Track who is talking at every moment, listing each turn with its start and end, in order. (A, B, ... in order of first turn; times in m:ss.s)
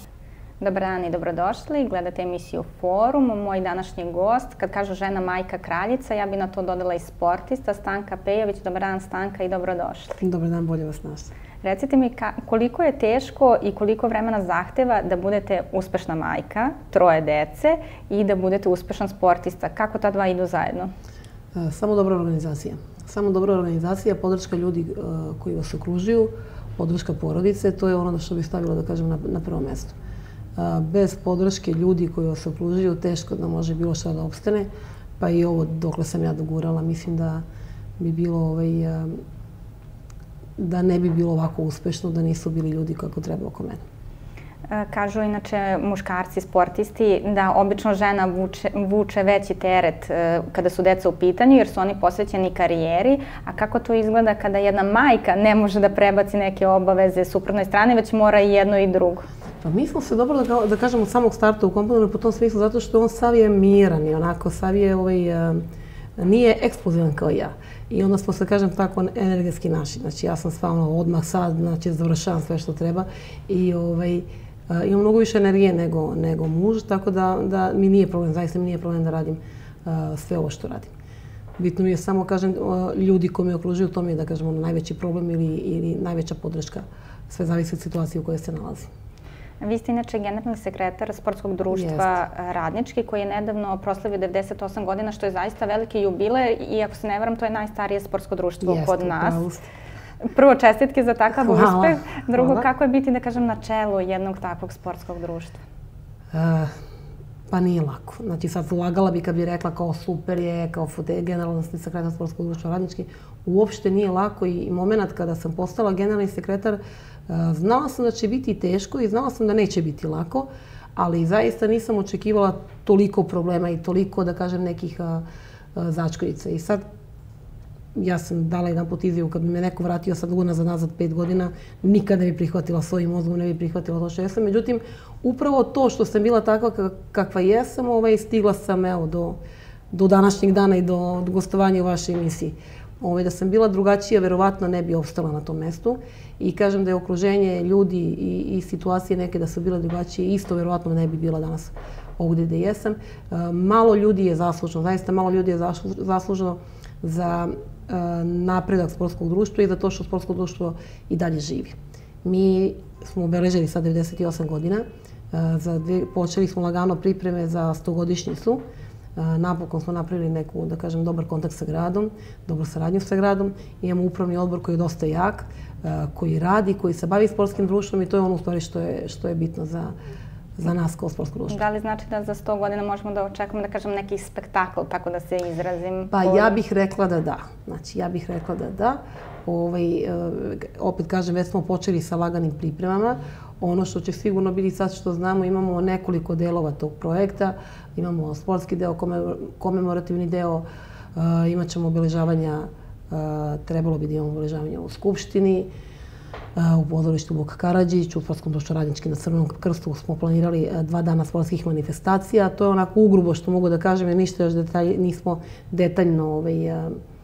0:00.6-0:10.2 A
0:10.2-0:11.3 B
0:11.6-0:20.9 A
0:21.5-0:30.0 B
0:30.6-0:34.7 B
0:35.2-0:37.4 B
0:38.0-0:39.2 B
0:40.6-0:43.8 B
0:44.7-0:59.3 A
0:59.6-1:05.6 B
1:06.2-1:20.9 B
1:21.6-1:28.9 B
1:29.6-1:39.4 A
1:31.7-1:32.1 B
1:38.6-1:39.6 B
1:40.2-1:45.6 A
1:41.3-1:42.6 B
1:46.3-1:46.7 B
1:47.5-2:05.2 B
2:05.7-2:06.8 B
2:07.9-2:19.4 B
2:19.9-2:48.6 B
2:49.2-2:59.9 B
3:00.6-3:01.6 B
3:01.5-3:06.5 A
3:06.1-3:25.7 B
3:26.6-3:37.0 B